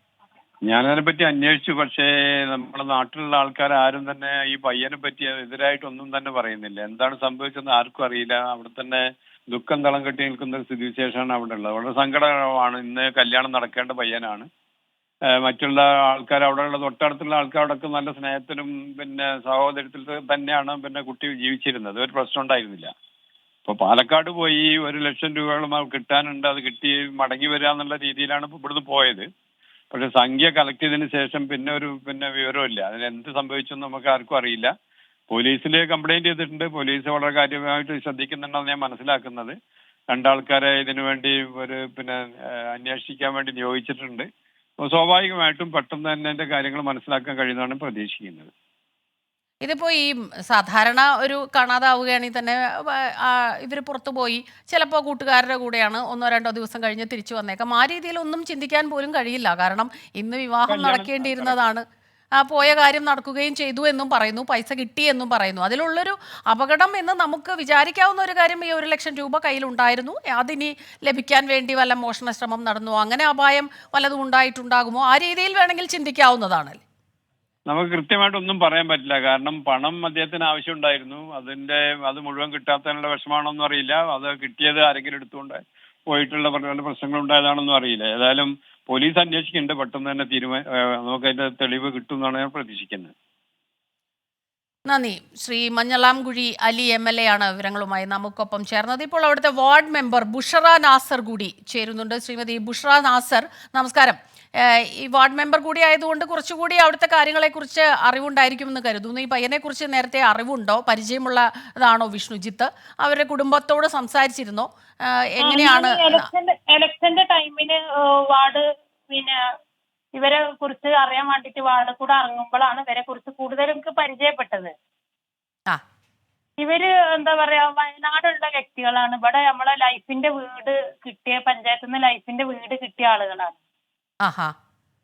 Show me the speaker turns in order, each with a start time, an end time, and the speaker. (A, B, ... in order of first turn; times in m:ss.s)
0:00.6-0:14.5 A
0:15.4-0:22.9 A
0:23.6-0:29.3 A
0:29.9-0:34.7 A
0:35.3-0:39.5 A
0:40.1-0:44.3 A
0:44.8-0:48.5 A
0:49.6-1:01.8 B
1:00.7-1:01.5 A
1:02.4-1:16.8 B
1:17.7-1:33.1 A
1:34.8-1:56.2 B
1:55.4-1:59.4 C
2:00.2-2:04.7 C
2:06.6-2:13.6 C
2:14.2-2:14.5 B